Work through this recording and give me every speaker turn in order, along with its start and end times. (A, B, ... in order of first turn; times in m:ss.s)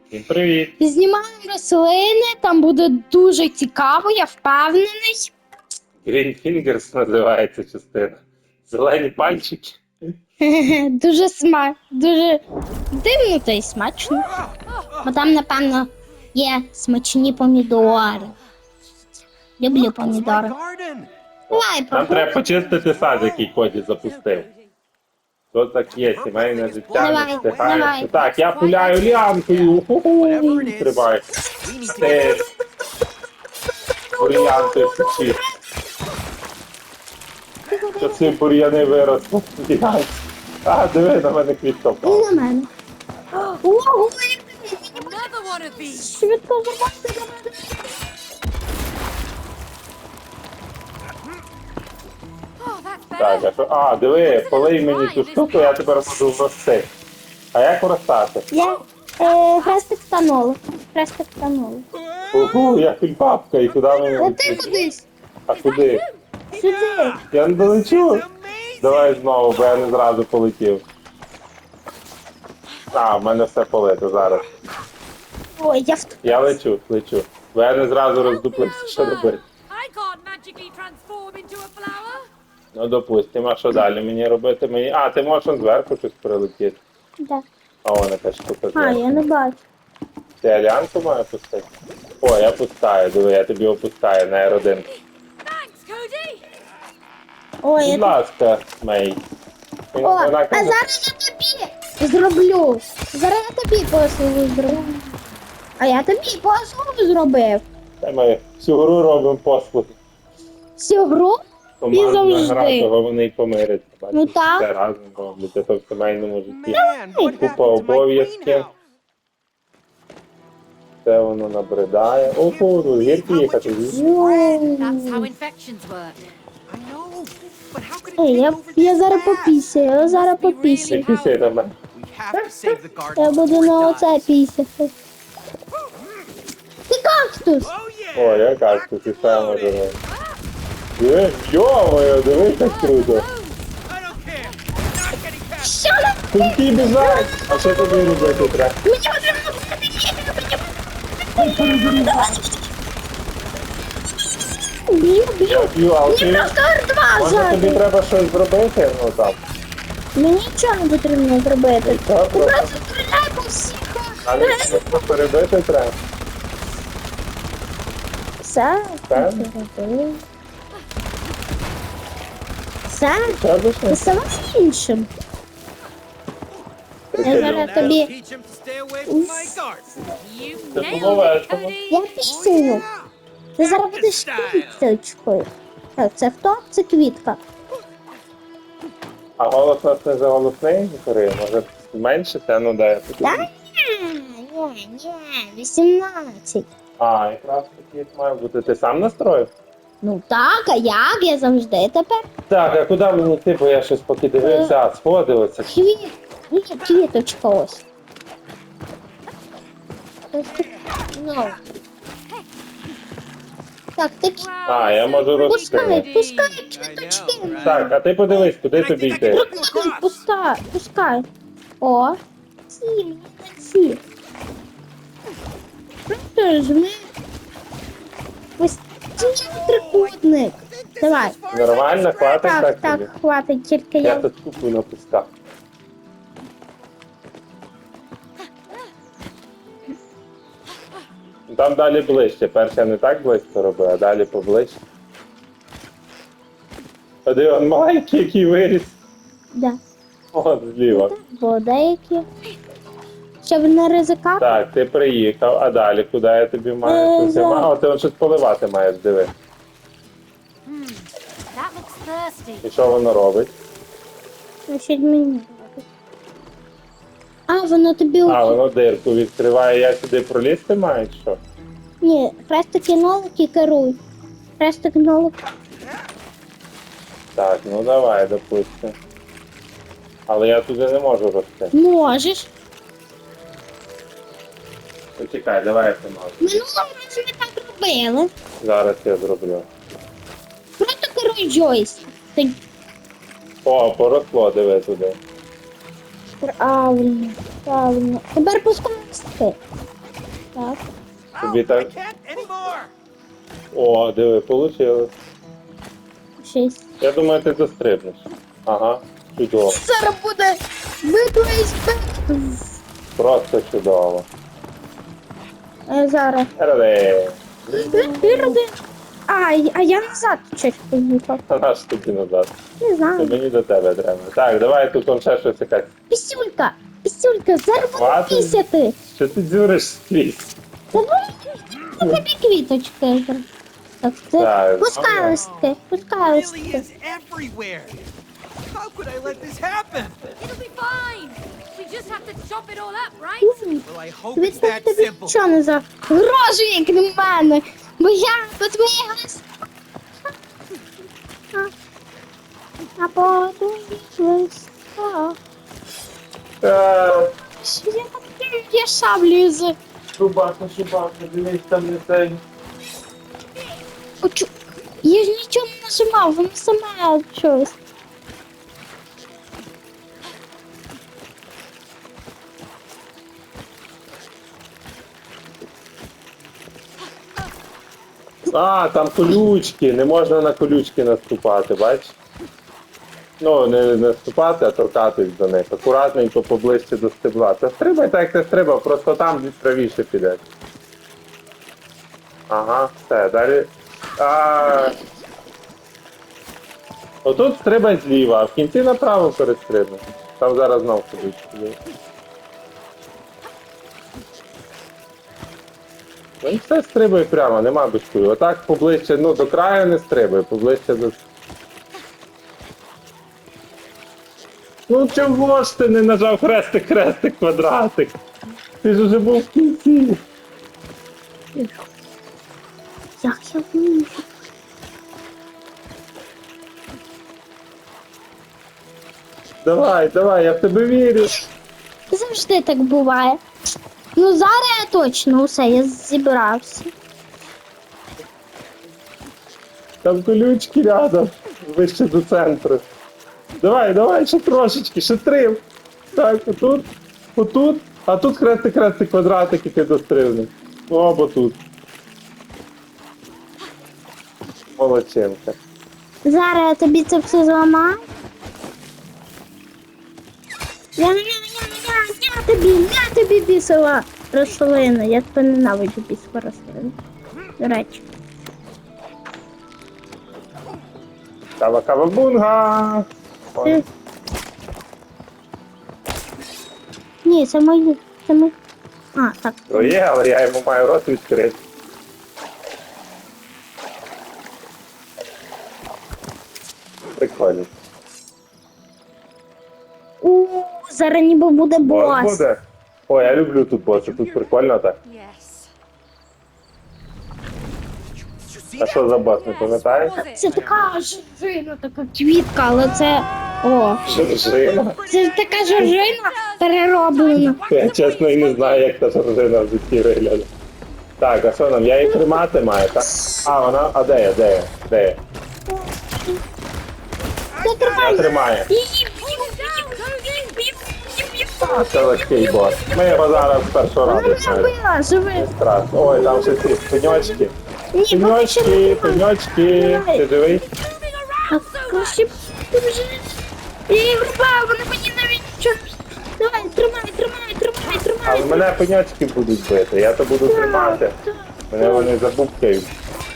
0:00.1-0:00.7 A
0:00.8-0:05.3 B
0:06.0-0:09.8 A
0:10.4-0:14.3 B
0:15.0-0:18.3 B
0:19.6-0:20.6 B
0:19.8-0:21.1 C
0:21.5-0:24.5 A
0:21.5-0:22.4 B
0:22.8-0:23.4 C
0:25.5-0:31.2 A
0:25.9-0:32.4 C
0:26.9-0:28.1 B
0:31.9-0:32.4 A
0:32.0-0:32.4 B
0:34.0-0:35.5 B
0:34.2-0:35.4 A
0:37.7-0:38.4 B
0:38.0-0:42.3 A
0:42.0-0:42.7 B
0:43.5-0:45.2 B
0:44.9-0:46.1 D
0:45.8-0:48.0 B
0:52.6-0:53.5 D
0:53.2-0:56.9 A
0:54.2-0:55.8 D
0:57.5-0:58.5 A
0:58.5-1:01.8 B
1:02.3-1:04.7 A
1:04.2-1:05.0 B
1:05.5-1:06.0 A
1:05.5-1:06.1 D
1:06.5-1:07.2 B
1:06.6-1:09.2 C
1:07.3-1:08.2 A
1:08.8-1:10.8 A
1:12.9-1:14.4 A
1:15.6-1:16.6 B
1:16.2-1:19.4 A
1:18.2-1:22.3 D
1:22.7-1:26.8 A
1:27.8-1:29.2 A
1:28.7-1:29.6 B
1:30.4-1:31.7 A
1:32.2-1:34.9 A
1:35.4-1:36.4 D
1:37.6-1:38.2 B
1:37.8-1:39.2 A
1:39.9-1:40.8 A
1:40.0-1:45.2 B
1:45.8-1:47.6 B
1:48.0-1:50.0 A
1:50.8-1:51.4 B
1:51.8-1:58.7 A
1:51.9-1:52.9 B
1:54.1-1:54.7 B
1:56.5-1:58.7 C
1:56.7-1:57.3 B
2:01.0-2:04.0 A
2:02.2-2:04.7 C
2:03.9-2:05.3 B
2:04.8-2:06.2 D
2:06.7-2:09.7 C
2:08.2-2:11.1 B
2:09.9-2:11.3 D
2:10.8-2:11.8 A
2:11.9-2:14.2 C
2:12.3-2:14.9 B
2:16.9-2:17.7 B
2:17.7-2:19.9 C
2:18.1-2:20.0 A
2:20.1-2:20.4 D
2:21.0-2:23.3 A
2:22.6-2:23.6 D
2:23.9-2:25.7 C
2:25.6-2:32.7 B
2:26.3-2:28.7 A
2:31.4-2:32.4 A
2:34.8-2:37.8 B
2:35.4-2:36.5 A
2:37.2-2:39.4 A
2:40.1-2:45.2 B
2:41.8-2:42.7 A
2:44.2-2:46.0 A
2:48.4-2:50.2 B
2:49.1-2:49.5 A
2:52.9-2:55.1 B
2:53.2-2:54.0 A
2:57.1-2:58.0 A
2:57.2-3:00.0 C
2:57.2-2:58.1 B
2:59.0-2:59.6 B
3:00.2-3:02.0 D
3:00.7-3:01.7 A
3:01.9-3:02.8 B
3:02.2-3:03.1 C
3:03.6-3:07.4 B
3:03.7-3:04.8 C
3:09.4-3:13.4 A
3:13.2-3:16.7 B
3:17.0-3:19.5 A
3:20.0-3:22.2 B
3:22.5-3:25.7 A
3:24.4-3:24.7 B
3:25.7-3:27.8 B
3:30.3-3:31.6 B
3:34.0-3:34.5 B
3:34.4-3:36.6 D
3:34.6-3:36.1 A
3:35.4-3:37.9 B
3:36.8-3:40.2 C
3:37.5-3:39.5 A
3:39.2-3:41.3 B
3:41.8-3:44.0 B
3:46.1-3:47.1 B
3:48.6-3:51.4 B
3:49.4-3:50.1 C
3:50.8-3:52.5 C
3:51.5-3:53.1 A
3:52.4-3:54.2 B
3:54.0-3:55.3 A
4:01.5-4:04.8 A
4:07.2-4:09.0 A
4:09.5-4:09.8 B
4:10.3-4:11.1 A
4:10.9-4:12.2 B
4:13.4-4:14.6 B
4:14.4-4:19.3 A
4:16.8-4:17.7 B
4:20.6-4:22.6 D
4:22.6-4:23.5 A
4:24.7-4:25.8 B
4:27.5-4:28.6 B
4:28.2-4:31.4 A
4:32.0-4:34.0 B
4:34.6-4:35.4 B
4:37.3-4:39.0 A
4:40.3-4:41.7 A
4:41.7-4:42.5 B
4:45.2-4:46.4 A
4:46.4-4:48.3 B
4:48.6-4:49.7 A
4:50.8-4:52.6 B
4:53.6-4:55.2 A
4:56.4-4:59.6 B
5:00.5-5:00.8 B
5:01.4-5:02.9 C
5:01.4-5:01.9 A
5:03.7-5:05.1 A
5:06.4-5:06.8 B
5:07.0-5:09.8 A
5:09.6-5:12.8 B
5:13.2-5:14.2 A
5:15.9-5:16.5 B
5:16.6-5:18.6 A
5:17.8-5:18.7 B
5:19.3-5:21.4 B
5:21.5-5:22.5 A
5:22.8-5:23.4 B
5:23.2-5:25.9 A
5:26.1-5:29.0 B
5:27.9-5:28.6 A
5:29.1-5:30.5 A
5:30.9-5:33.4 B
5:34.0-5:36.8 B
5:34.4-5:35.4 A
5:35.3-5:38.0 C
5:38.7-5:40.2 C
5:40.4-5:43.5 D
5:43.4-5:49.4 B
5:43.8-5:45.4 C
5:53.0-5:55.4 B
5:56.6-5:57.3 A
5:57.0-5:59.8 B
6:00.2-6:02.4 A
6:04.2-6:04.5 B
6:05.0-6:07.8 B
6:18.5-6:22.2 A
6:23.4-6:30.4 A
6:32.5-6:35.0 A
6:37.2-6:41.8 A
6:46.4-6:51.2 A
6:54.9-6:58.2 A
6:58.8-7:00.2 A
7:01.5-7:01.8 B
7:03.2-7:04.2 B
7:09.6-7:11.3 A
7:12.1-7:13.4 B
7:14.1-7:16.9 B
7:20.0-7:22.8 A
7:23.6-7:25.6 A
7:26.1-7:31.6 A
7:34.7-7:35.5 A
7:36.2-7:38.0 B
7:41.0-7:46.9 B
7:47.6-7:48.0 B
7:51.6-7:53.8 A
7:57.2-7:58.5 B
7:59.1-8:00.0 B
7:59.7-8:01.6 A
8:07.1-8:07.7 A
8:10.2-8:12.4 B
8:11.8-8:15.0 A
8:13.9-8:14.4 C
8:15.0-8:15.7 D
8:18.4-8:19.2 C
8:18.8-8:20.1 A
8:19.4-8:20.8 D
8:20.2-8:24.1 B
8:24.1-8:25.0 A
8:24.1-8:26.1 C
8:25.0-8:27.6 B
8:26.8-8:28.7 D
8:27.7-8:30.5 A
8:31.2-8:35.2 A
8:32.0-8:32.4 B
8:33.0-8:33.5 B
8:35.7-8:36.4 B
8:37.6-8:43.5 B
8:37.8-8:38.2 C
8:38.0-8:38.7 A
8:39.3-8:40.6 D
8:41.6-8:44.7 A
8:44.0-8:45.5 B
8:45.3-8:47.5 A
8:46.0-8:47.4 B
8:47.9-8:50.2 B
8:48.1-8:50.6 A
8:50.8-8:52.2 D
8:51.5-8:53.4 B
8:53.9-8:58.7 B
8:58.2-9:01.2 A
9:00.4-9:02.1 B
9:01.7-9:02.9 A